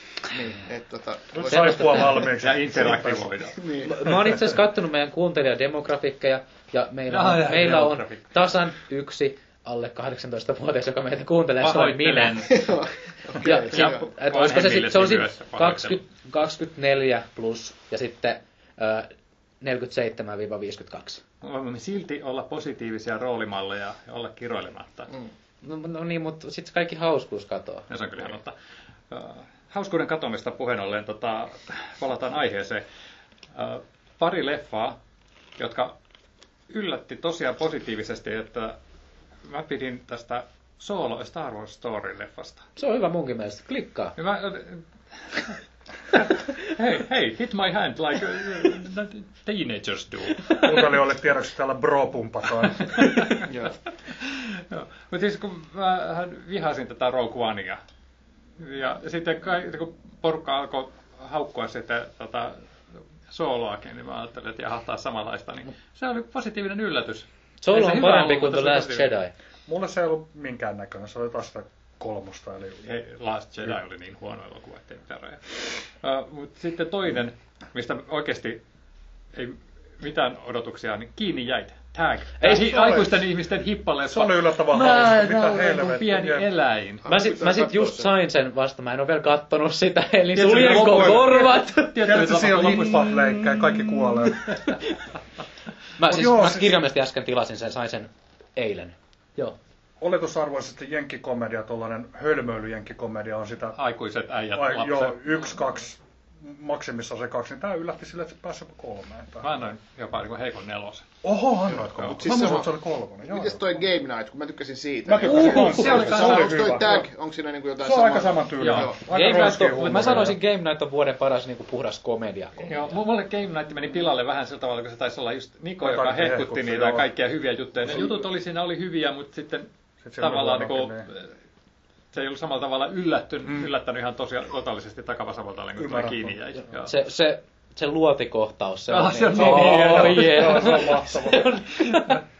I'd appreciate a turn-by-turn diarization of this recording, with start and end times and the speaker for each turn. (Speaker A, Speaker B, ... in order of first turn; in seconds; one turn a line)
Speaker A: 0.3-2.2
Speaker B: 1.3-3.3
Speaker C: 1.5-2.3
Speaker D: 2.3-3.6
Speaker A: 3.6-4.0
Speaker C: 3.8-12.5
Speaker D: 7.1-8.3
Speaker D: 11.6-12.7
Speaker A: 12.5-14.1
Speaker C: 13.4-19.1
Speaker D: 13.4-16.0
Speaker C: 19.6-21.2
Speaker D: 21.4-25.1
Speaker C: 25.6-27.9
Speaker D: 27.9-28.5
Speaker D: 29.1-32.8
Speaker D: 33.5-35.0
Speaker D: 35.6-36.0
Speaker D: 36.7-38.8
Speaker D: 39.4-42.6
Speaker C: 42.8-44.1
Speaker D: 44.2-45.5
Speaker D: 46.1-50.9
Speaker B: 50.6-53.4
Speaker D: 52.8-53.6
Speaker D: 54.1-57.8
Speaker D: 58.6-62.6
Speaker D: 63.3-69.1
Speaker C: 67.6-69.3
Speaker B: 69.7-72.8
Speaker D: 72.8-78.6
Speaker D: 79.3-87.0
Speaker B: 82.4-82.8
Speaker B: 84.0-86.5
Speaker A: 87.0-88.1
Speaker C: 87.0-92.0
Speaker D: 90.3-93.3
Speaker B: 90.4-94.6
Speaker C: 94.5-94.8
Speaker C: 96.0-99.5
Speaker B: 96.0-96.7
Speaker B: 100.0-103.8
Speaker D: 103.7-105.3
Speaker B: 104.5-109.7
Speaker D: 109.4-111.1
Speaker B: 111.2-113.8
Speaker A: 112.0-119.0
Speaker B: 115.0-117.1
Speaker D: 115.2-116.8
Speaker B: 117.8-120.4
Speaker D: 118.6-118.9
Speaker C: 119.1-122.7
Speaker D: 122.7-129.7
Speaker B: 125.8-127.1
Speaker B: 130.0-131.1
Speaker D: 130.2-131.3
Speaker D: 132.1-136.9
Speaker B: 135.8-136.3
Speaker C: 136.8-142.2
Speaker D: 138.9-140.8
Speaker B: 139.3-141.6